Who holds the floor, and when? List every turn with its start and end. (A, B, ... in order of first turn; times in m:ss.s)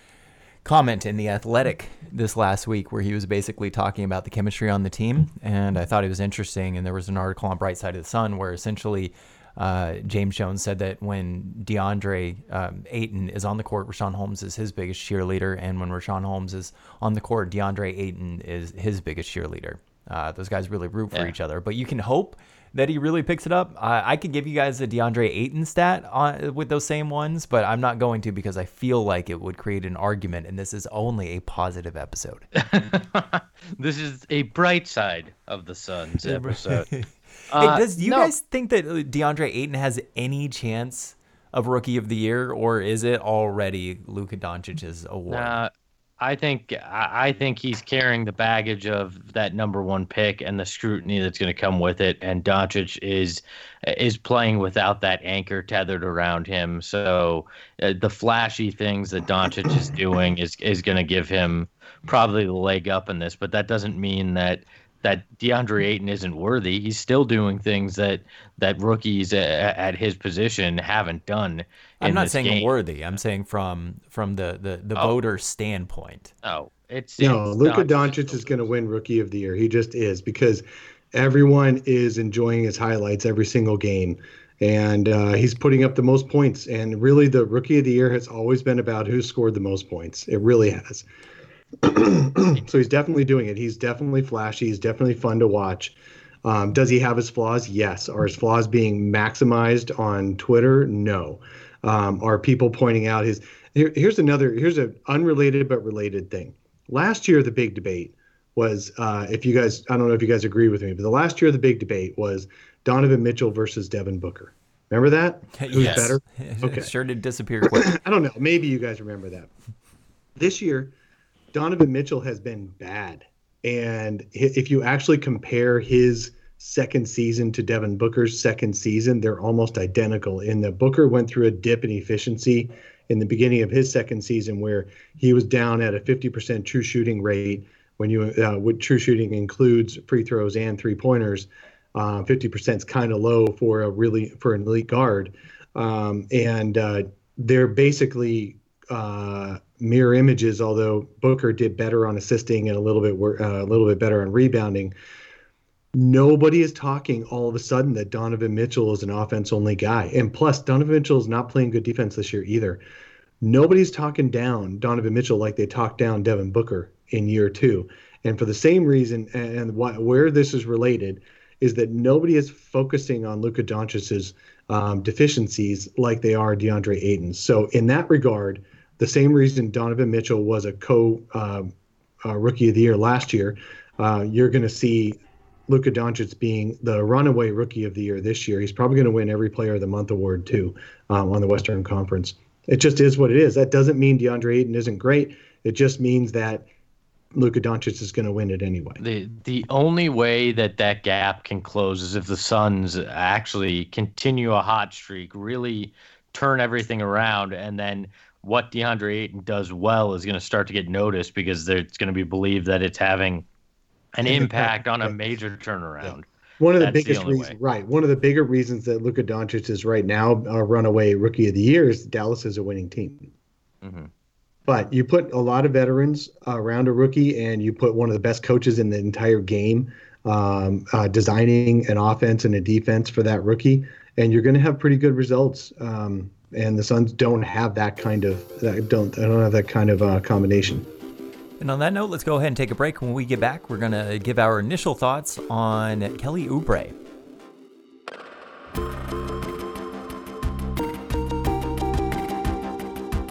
0:00.6-0:32.4 A
0:32.6-0:36.9 B
0:36.2-0:45.5 A
0:37.5-0:38.3 B
0:45.3-1:12.7 B
1:12.0-1:16.3 A
1:16.4-1:18.7 B
1:17.2-1:31.0 C
1:31.8-1:56.9 C
1:55.5-1:58.0 A
1:55.7-1:56.1 B
1:57.6-1:59.5 C
2:00.4-2:00.9 C
2:01.5-2:34.9 C
2:35.9-2:42.8 C
2:43.4-3:01.7 C
3:02.2-3:16.6 C
3:17.3-3:19.0 C
3:19.0-3:33.4 B
3:34.1-3:36.3 B
3:34.2-3:35.2 C
3:36.0-3:43.3 C
3:36.8-3:37.6 B
3:43.8-3:44.1 B
3:44.7-4:00.9 C
4:01.6-4:06.9 A